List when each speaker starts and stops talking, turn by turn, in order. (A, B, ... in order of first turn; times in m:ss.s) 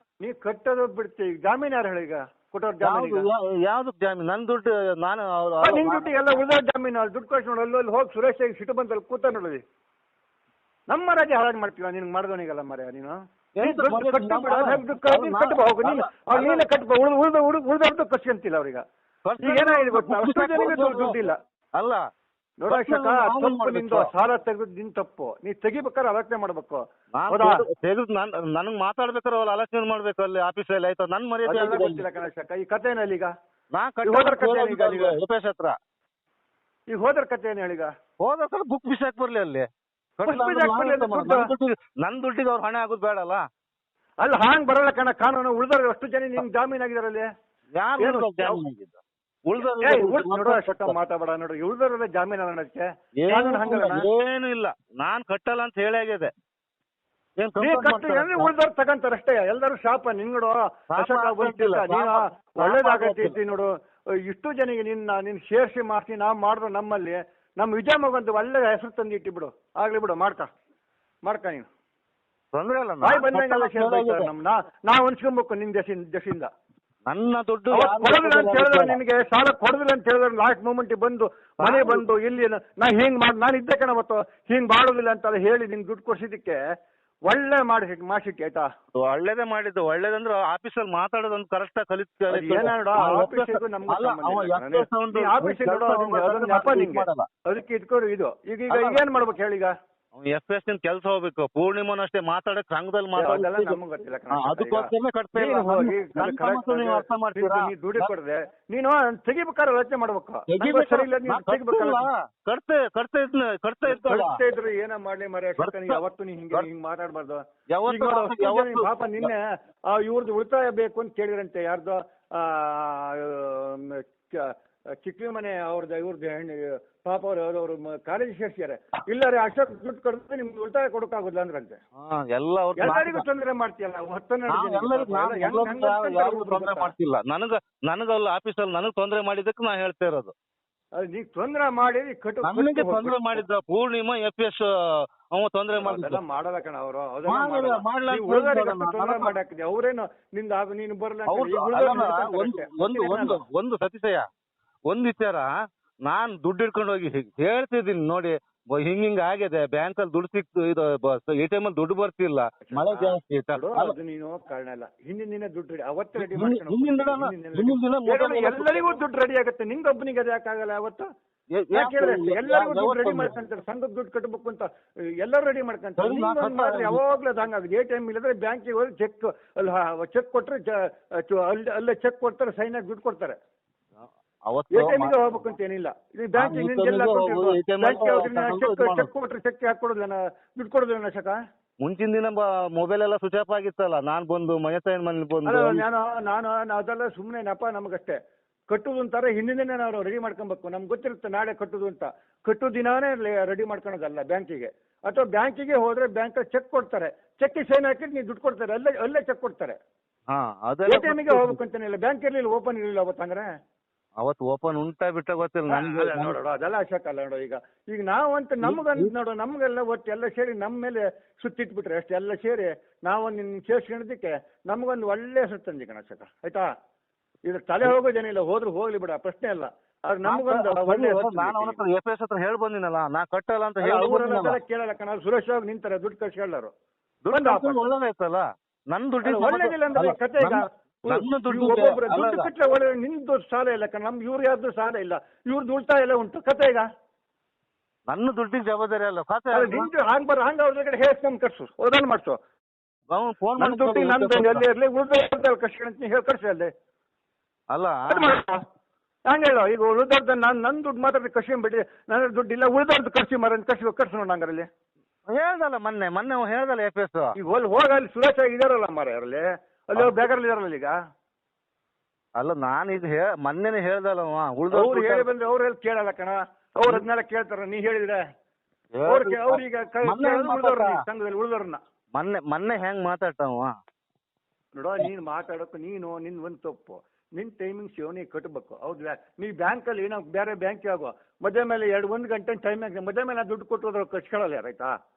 0:00.2-0:03.2 A
0:02.8-0:06.2 B
0:05.6-0:09.6 A
0:10.9-0:18.8 A
0:13.6-0:16.6 B
0:19.2-0:21.2 B
0:19.4-0:21.4 A
0:21.8-0:22.0 B
0:22.6-0:27.5 A
0:22.7-0:24.1 B
0:27.1-0:32.0 B
0:31.4-0:33.3 A
0:33.7-0:35.7 B
0:34.0-0:35.2 A
0:36.9-0:37.9 A
0:38.2-0:39.7 B
0:40.2-0:43.4 B
0:40.2-0:41.4 A
0:44.2-0:47.3 A
0:47.8-0:51.0 B
0:48.0-0:48.6 A
0:49.8-0:54.1 A
0:53.2-0:56.3 B
0:57.4-0:58.5 B
0:57.6-1:03.7 A
1:00.9-1:03.4 B
1:04.2-1:10.5 A
1:11.2-1:11.7 A
1:12.5-1:14.3 B
1:13.0-1:16.5 A
1:17.1-1:19.0 B
1:17.7-1:26.6 A
1:21.6-1:22.0 B
1:27.3-1:28.7 A
1:28.9-1:37.3 B
1:32.3-1:39.7 A
1:38.7-1:39.0 B
1:40.1-1:43.8 B
1:43.1-1:52.1 A
1:44.3-1:48.1 B
1:50.5-1:54.4 B
1:53.9-2:04.5 A
1:55.6-1:56.0 B
1:57.7-1:59.3 B
2:05.0-2:11.8 A
2:12.0-2:13.2 B
2:12.8-2:16.9 A
2:14.5-2:20.3 B
2:21.0-2:23.4 A
2:22.4-2:26.2 B
2:25.8-2:33.4 A
2:27.2-2:29.3 B
2:31.3-2:34.2 B
2:34.9-2:35.5 B
2:36.0-2:44.0 B
2:42.6-2:51.0 A
2:46.2-2:49.0 B
2:51.5-2:53.4 B
2:51.7-2:54.6 A
2:55.2-3:03.4 A
2:56.0-2:57.0 B
3:04.4-3:05.4 B
3:04.7-3:11.4 A
3:06.4-3:09.1 B
3:11.8-3:15.8 B
3:15.4-3:18.2 A
3:18.7-3:29.8 A
3:30.3-3:31.6 B
3:30.8-3:33.5 A
3:34.2-3:36.4 B
3:35.7-3:46.6 A
3:38.6-3:39.1 B
3:47.5-3:51.8 A
3:50.2-3:54.6 B
3:53.8-3:56.7 A
3:57.2-4:02.5 B
3:57.3-3:57.8 A
3:59.2-4:06.8 A
4:08.1-4:09.9 B
4:09.5-4:12.4 A
4:13.1-4:14.6 B
4:13.6-4:16.7 A
4:17.7-4:18.3 B
4:18.1-4:18.6 A
4:19.3-4:24.7 A
4:25.3-4:27.4 B
4:27.4-4:30.9 A
4:29.9-4:30.2 B
4:32.4-4:35.3 B
4:34.7-4:38.2 A
4:39.0-4:41.0 B
4:39.0-4:41.8 A
4:42.1-4:43.7 B
4:44.7-4:54.9 A